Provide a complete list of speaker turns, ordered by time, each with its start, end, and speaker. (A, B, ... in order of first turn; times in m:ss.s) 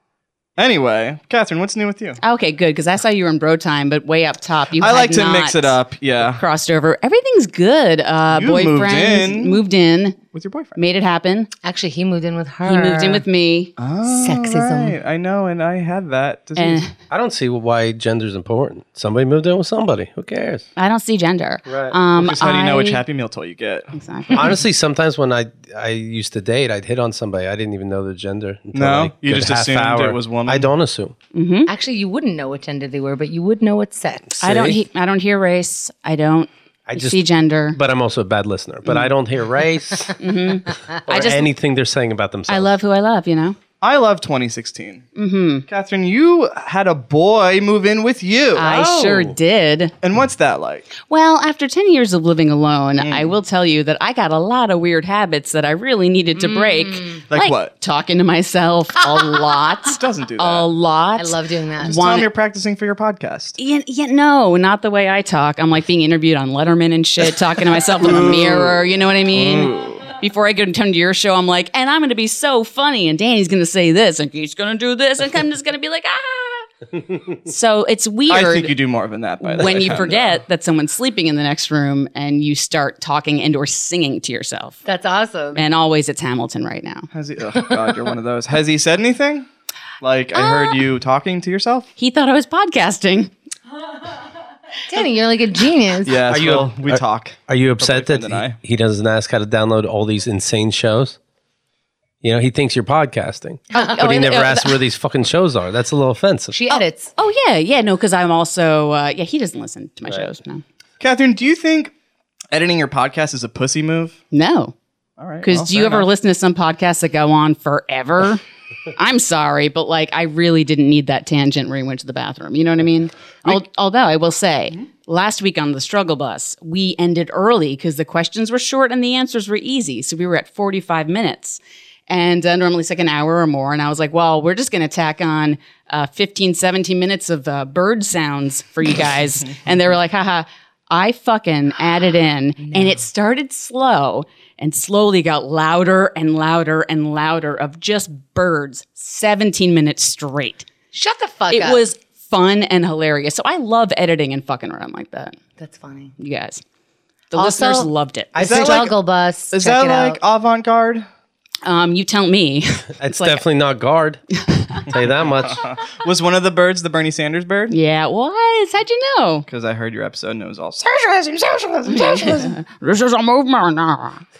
0:00.6-0:02.2 A
0:02.2-0:05.7 B
0:04.8-0:06.4 A
0:06.4-0:10.2 B
0:08.3-0:09.6 A
0:10.3-0:10.8 A
0:10.8-0:11.5 B
0:11.6-0:13.2 C
0:12.6-0:13.7 B
0:13.8-0:16.8 A
0:14.0-0:15.0 C
0:16.6-0:16.9 B
0:17.1-0:20.6 D
0:20.8-0:23.0 B
0:21.6-0:22.0 D
0:22.2-0:24.5 A
0:23.9-0:24.6 B
0:24.3-0:31.1 D
0:28.7-0:30.7 A
0:31.3-0:31.7 B
0:31.7-0:34.4 C
0:34.4-0:34.8 D
0:34.4-0:37.8 B
0:36.9-0:40.3 D
0:40.2-0:41.5 B
0:41.0-0:42.7 D
0:42.5-0:43.6 B
0:43.8-0:45.0 A
0:45.2-0:45.6 B
0:45.7-0:48.7 A
0:48.6-0:49.9 B
0:48.6-0:49.4 D
0:50.0-0:50.9 A
0:51.0-1:02.3 B
0:53.0-0:53.3 A
0:56.4-0:57.2 C
0:57.3-0:57.7 A
0:59.9-1:00.7 A
1:01.2-1:02.0 C
1:01.8-1:03.6 A
1:03.6-1:16.7 B
1:08.0-1:10.1 A
1:17.4-1:18.7 B
1:18.3-1:20.4 A
1:19.4-1:24.8 B
1:24.8-1:25.6 C
1:25.5-1:27.1 B
1:27.1-1:29.5 A
1:30.0-1:31.9 A
1:30.3-1:30.8 B
1:32.0-1:33.3 B
1:34.9-1:36.2 C
1:36.0-1:38.6 A
1:36.3-1:41.2 D
1:42.2-1:46.6 D
1:43.7-1:44.8 B
1:46.5-1:47.1 C
1:46.7-1:50.6 B
1:51.0-1:51.9 A
1:52.5-1:54.2 A
1:54.3-1:54.7 B
1:55.2-1:56.1 A
1:55.4-1:58.4 B
1:58.9-2:30.6 B
2:22.6-2:23.0 C
2:30.9-2:31.8 C
2:31.5-2:35.4 B
2:35.6-2:36.1 C
2:36.2-2:36.6 B
2:37.3-2:38.3 B
2:37.3-2:40.2 C
2:38.3-2:38.8 D
2:38.4-2:38.9 A
2:39.5-2:41.1 A
2:41.6-2:43.4 B
2:43.0-2:44.2 D
2:44.5-2:44.9 B
2:44.8-2:45.6 D
2:45.4-2:47.8 A
2:47.7-2:49.4 B
2:49.5-2:52.5 A
2:51.9-2:54.2 B